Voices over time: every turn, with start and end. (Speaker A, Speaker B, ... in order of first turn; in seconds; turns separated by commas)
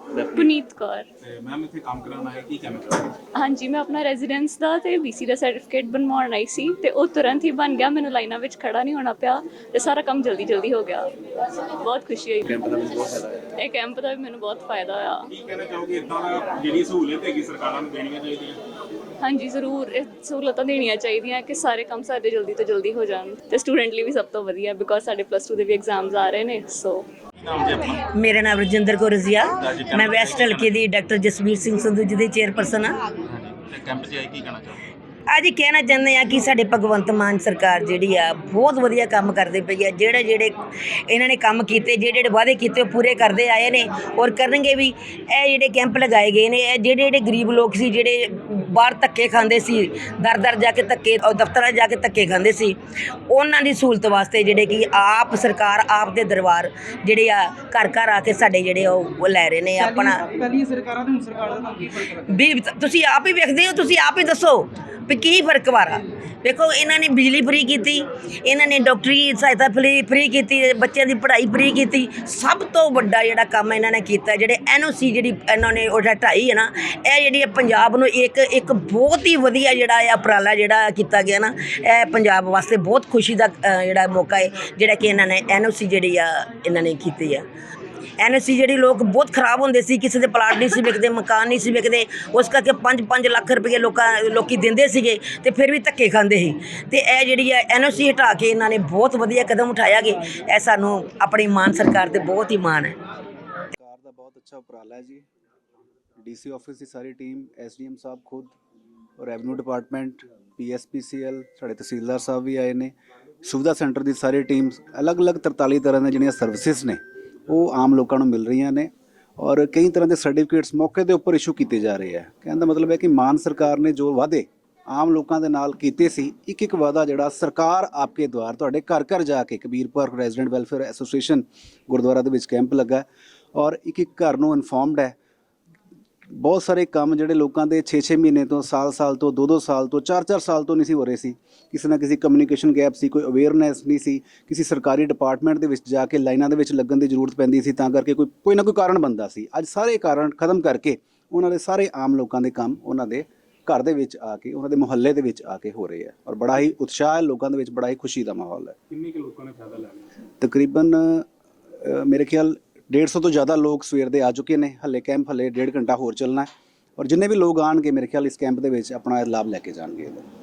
Speaker A: 0.3-1.1, Speaker B: 1.2-3.1, Speaker A: 3.3-11.1, Speaker A: 11.8-12.7, Speaker B: 12.5-13.3, Speaker A: 13.5-15.2, Speaker B: 15.3-18.6, Speaker A: 19.2-27.1, Speaker B: 27.4-28.0, Speaker C: 28.1-33.0, Speaker B: 29.6-30.8, Speaker B: 33.2-34.8, Speaker C: 35.3-40.5, Speaker C: 41.1-52.8, Speaker C: 53.3-60.2, Speaker D: 59.8-62.2, Speaker C: 62.1-87.4, Speaker C: 88.2-102.9, Speaker E: 103.7-105.2, Speaker E: 106.2-108.5, Speaker E: 109.2-112.9, Speaker E: 113.4-133.0, Speaker E: 133.5-135.1, Speaker E: 136.3-158.8, Speaker B: 158.9-160.1, Speaker E: 160.4-161.2, Speaker E: 161.8-170.3